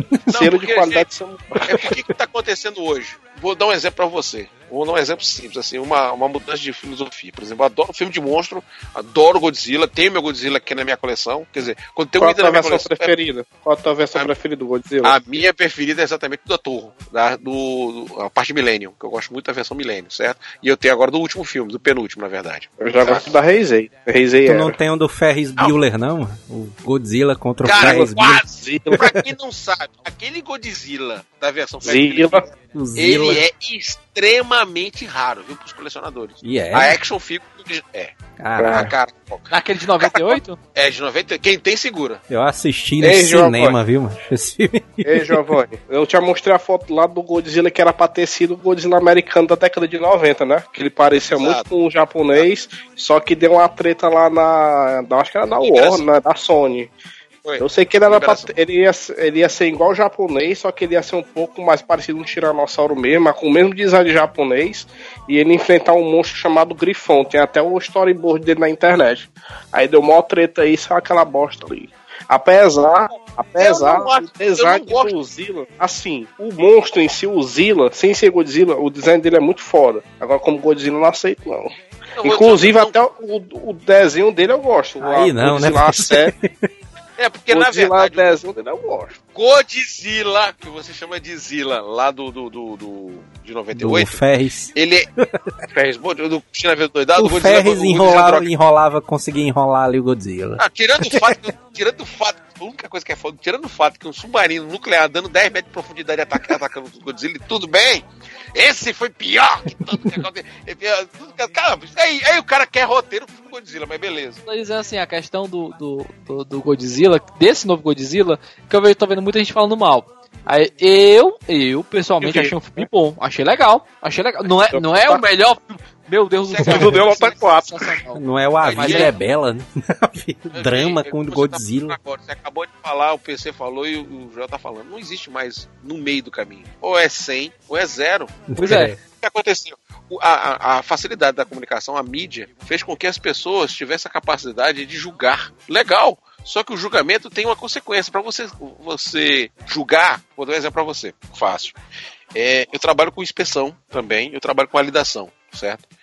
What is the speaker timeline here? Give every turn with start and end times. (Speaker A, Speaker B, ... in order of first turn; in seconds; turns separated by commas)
Speaker A: 0.3-1.1, Speaker B: 0.3-1.9, Speaker A: 1.7-13.1, Speaker B: 12.2-15.2, Speaker A: 15.0-23.3, Speaker B: 22.8-24.8, Speaker C: 24.4-28.4, Speaker A: 27.6-38.1, Speaker B: 27.8-29.3, Speaker B: 31.8-32.5, Speaker C: 32.7-33.5, Speaker C: 36.4-37.0, Speaker C: 38.4-38.9, Speaker B: 38.6-38.9, Speaker A: 38.6-39.5, Speaker D: 39.5-40.6, Speaker A: 40.0-42.2, Speaker C: 42.3-45.4, Speaker B: 43.0-43.8, Speaker B: 45.0-56.9, Speaker A: 51.3-51.7, Speaker A: 55.6-56.0, Speaker A: 57.5-58.5, Speaker B: 57.6-86.3, Speaker A: 73.6-75.1, Speaker A: 82.2-83.0, Speaker C: 85.0-86.7, Speaker A: 87.2-88.4, Speaker B: 87.5-89.2, Speaker A: 89.3-94.2, Speaker C: 93.8-95.5, Speaker A: 94.8-95.1, Speaker A: 95.7-98.5, Speaker C: 97.2-101.4, Speaker A: 100.6-114.4, Speaker D: 114.5-128.2, Speaker B: 122.2-122.8, Speaker B: 124.7-125.2, Speaker A: 126.4-127.4, Speaker B: 126.6-128.0, Speaker C: 128.2-132.0, Speaker A: 128.6-129.2, Speaker D: 128.8-129.1, Speaker A: 130.5-138.4, Speaker C: 138.5-139.0, Speaker D: 138.6-138.9, Speaker A: 139.2-151.8, Speaker A: 152.3-155.8